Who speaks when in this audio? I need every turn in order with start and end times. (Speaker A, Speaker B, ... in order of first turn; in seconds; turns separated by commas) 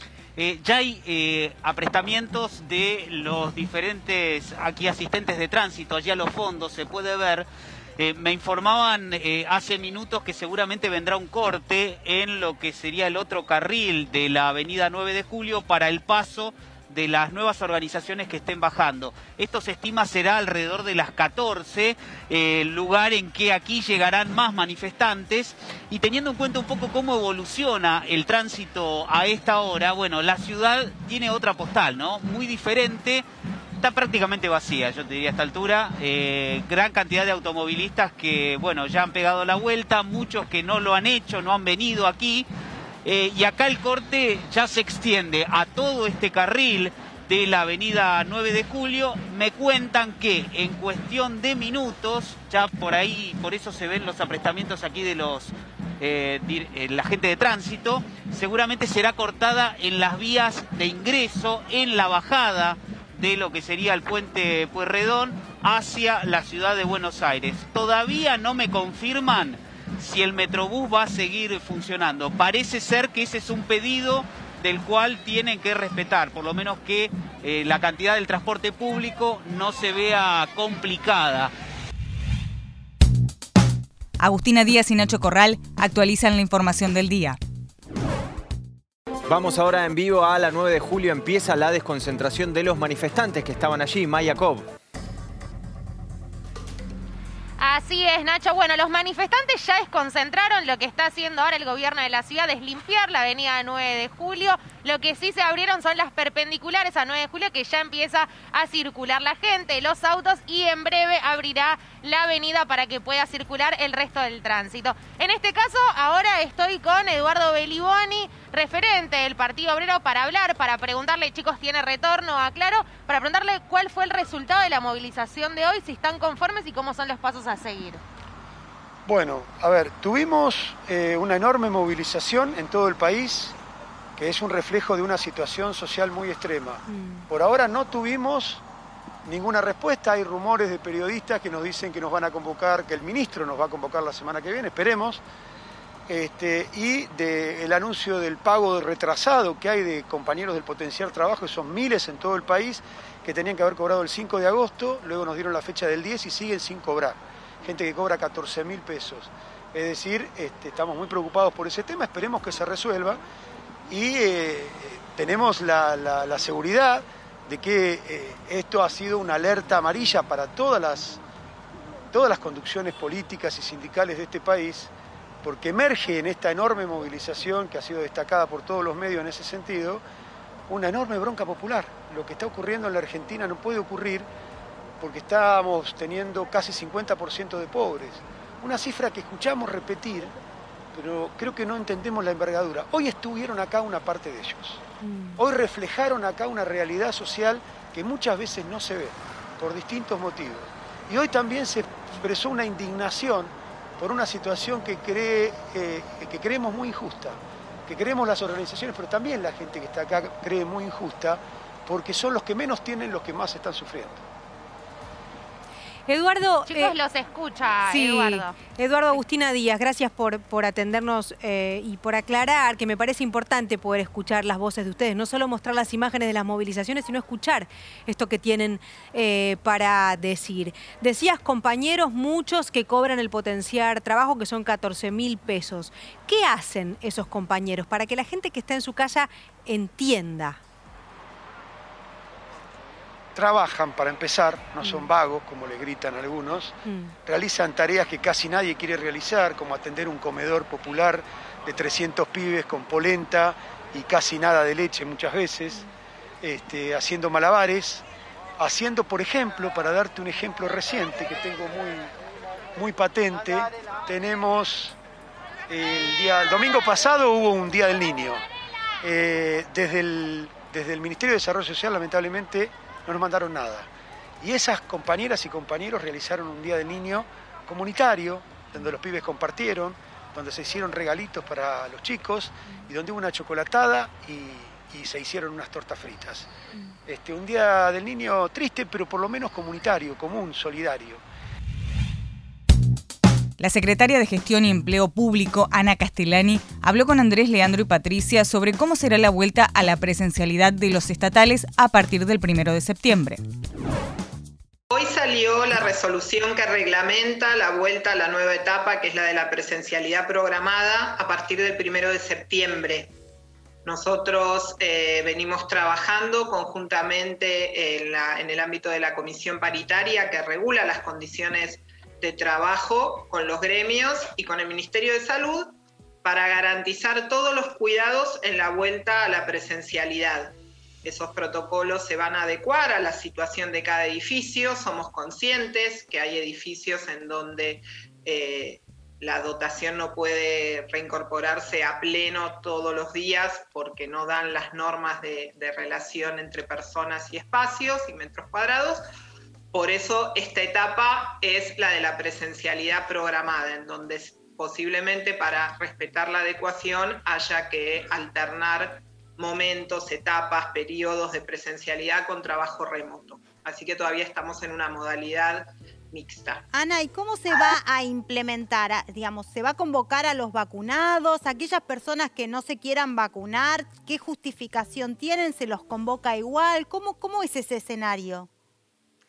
Speaker A: 0.4-33.3, Speaker A: 33.8-42.5, Speaker A: 43.0-81.5, Speaker B: 84.2-87.4, Speaker C: 89.3-94.7, Speaker D: 97.6-128.0, Speaker E: 129.1-133.6, Speaker E: 134.2-138.6, Speaker F: 136.9-137.2, Speaker E: 139.2-145.2, Speaker E: 146.1-163.2, Speaker E: 163.9-171.2, Speaker E: 172.1-174.9, Speaker E: 175.4-180.0, Speaker E: 180.7-184.3, Speaker E: 185.0-190.3, Speaker E: 190.9-194.8, Speaker F: 195.0-195.4, Speaker E: 195.4-214.2, Speaker F: 216.1-217.0, Speaker D: 216.7-218.6, Speaker F: 217.8-240.6, Speaker E: 243.3-255.8, Speaker F: 244.8-245.1, Speaker F: 246.8-247.1, Speaker E: 256.4-258.0, Speaker E: 258.6-262.1, Speaker E: 262.8-265.0, Speaker E: 265.7-268.4, Speaker E: 269.0-273.9, Speaker E: 274.4-286.5, Speaker E: 287.1-291.2, Speaker B: 293.6-303.4, Speaker G: 304.9-313.1, Speaker G: 313.9-325.7, Speaker G: 326.2-349.0, Speaker G: 349.7-366.6, Speaker H: 366.7-378.5